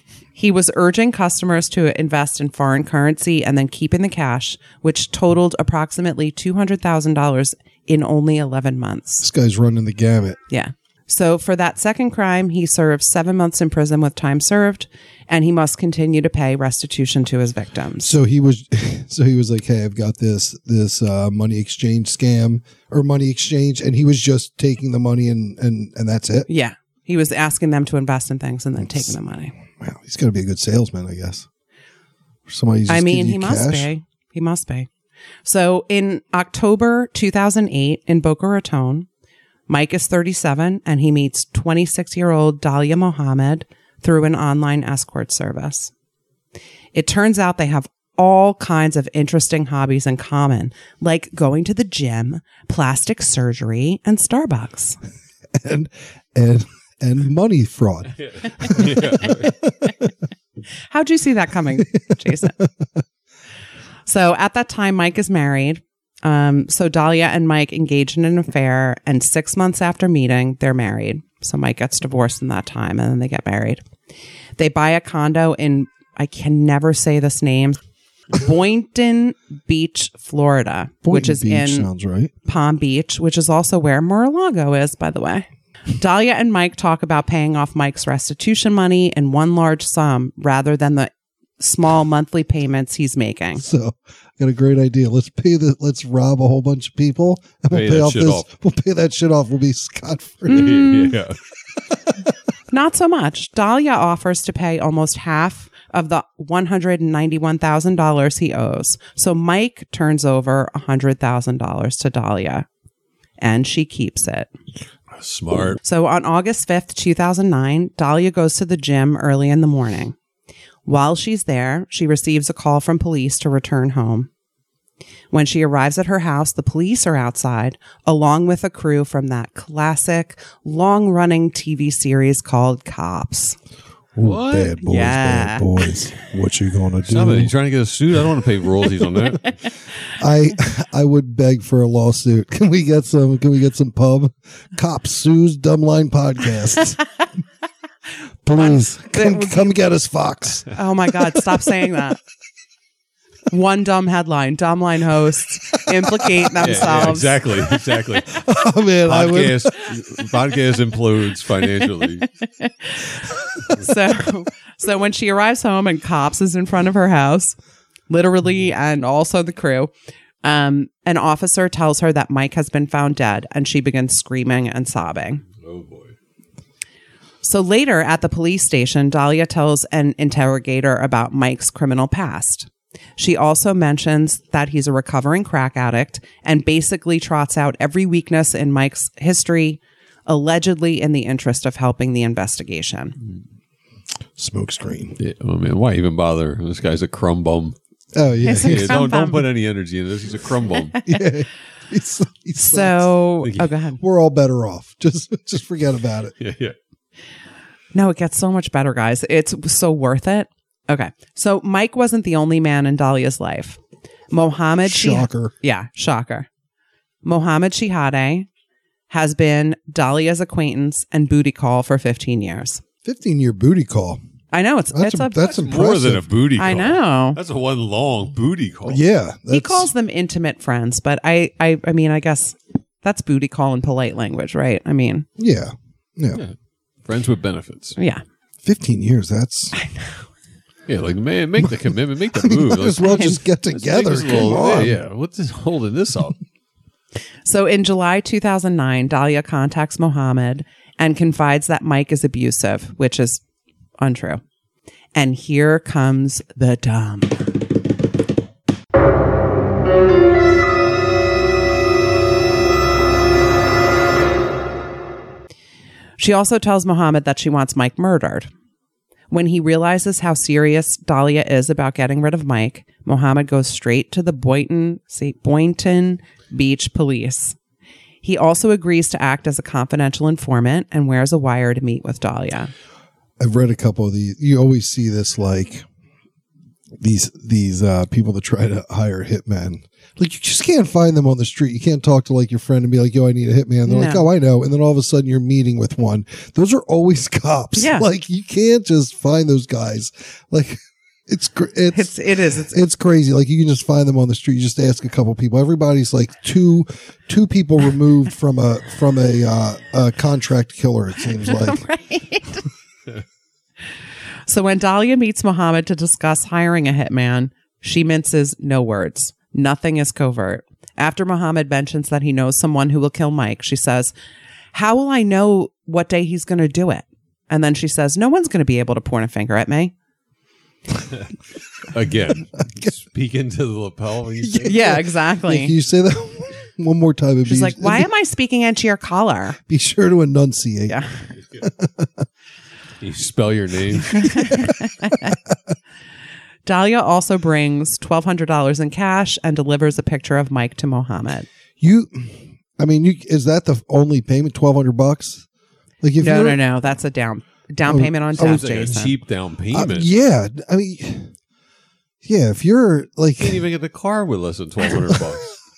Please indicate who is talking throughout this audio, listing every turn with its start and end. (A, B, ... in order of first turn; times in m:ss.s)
0:00.3-0:09.3 A
0:09.2-0:10.4 B
0:10.5-0:18.1 A
0:18.0-0:26.5 B
0:26.5-0:29.5 A
0:28.8-0:29.1 B
0:29.7-0:31.5 B
0:32.5-0:33.9 B
0:32.9-0:34.9 A
0:35.4-0:39.1 A
0:39.7-0:45.9 A
0:46.9-0:55.0 A
0:55.5-1:00.0 B
0:58.2-0:59.6 C
1:00.8-1:02.6 A
1:02.4-1:02.9 B
1:04.0-1:13.8 A
1:14.6-1:17.8 A
1:18.3-1:21.9 A
1:21.0-1:22.3 B
1:22.4-1:33.6 A
1:33.6-1:40.8 B
1:37.7-1:38.4 C
1:40.5-1:41.1 A
1:40.5-1:41.4 C
1:42.7-1:52.6 A
1:53.4-1:54.5 A
1:55.2-1:55.8 C
1:55.8-2:00.2 A
2:00.8-2:04.3 A
2:05.3-2:13.6 A
2:14.2-2:17.5 B
2:14.2-2:14.8 C
2:14.8-2:15.9 A
2:17.1-2:19.5 C
2:20.1-2:27.0 B
2:28.4-2:31.6 B
2:28.6-2:29.8 A
2:30.7-2:32.2 A
2:33.5-2:37.5 A
2:36.0-2:36.5 B
2:36.6-2:38.4 C
2:38.1-2:39.9 B
2:39.0-2:42.3 C
2:42.2-2:47.6 A
2:48.1-2:55.4 A
2:55.6-2:56.1 C
2:57.4-3:13.2 A
3:14.4-3:15.2 B
3:15.2-3:17.8 C
3:18.1-3:19.1 B
3:18.4-3:19.5 A
3:18.6-3:21.0 C
3:20.9-3:21.2 A
3:21.0-3:23.1 B
3:22.6-3:24.0 A
3:23.4-3:23.7 C
3:24.0-3:26.3 B
3:26.4-3:26.7 C
3:27.9-3:33.8 A
3:34.3-3:36.5 A
3:34.8-3:35.5 B
3:37.2-3:38.5 A
3:39.1-3:42.8 A
3:43.0-3:44.2 B
3:44.5-3:45.6 A
3:44.9-3:46.3 B
3:45.4-3:49.0 C
3:46.6-3:47.4 A
3:48.8-3:49.9 B
3:49.5-3:55.3 A
3:55.4-3:56.4 B
3:57.0-3:58.0 C
3:58.0-3:58.2 A
3:58.6-3:59.7 B
3:59.7-4:00.3 A
4:00.9-4:06.4 C
4:02.3-4:05.0 B
4:03.1-4:03.4 A
4:07.4-4:13.4 A
4:14.0-4:14.4 A
4:15.1-4:17.4 A
4:26.2-4:28.5 A
4:29.3-4:37.6 A
4:38.2-4:42.7 A
4:43.4-4:45.8 B
4:47.0-5:02.1 B
4:53.8-4:54.3 A
4:57.8-4:58.1 A
5:01.9-5:02.8 A
5:02.7-5:11.8 B
5:11.5-5:12.6 A
5:14.5-5:24.1 A
5:24.7-5:29.9 A
5:31.8-5:35.0 C
5:32.6-5:32.9 B
5:34.4-5:38.1 B
5:34.6-5:35.7 A
5:37.4-5:39.6 A
5:39.7-5:41.0 B
5:40.9-5:41.2 A
5:41.6-5:42.3 B
5:43.0-5:44.3 C
5:44.1-5:45.4 A
5:44.2-5:44.6 B
5:46.6-5:51.5 A
5:51.8-5:55.4 B
5:56.0-5:56.6 B
5:56.2-5:59.1 A
5:57.8-5:58.7 B
5:58.4-6:00.1 C
5:59.7-6:01.3 B
6:02.2-6:03.6 B
6:03.4-6:05.5 C
6:04.9-6:05.3 B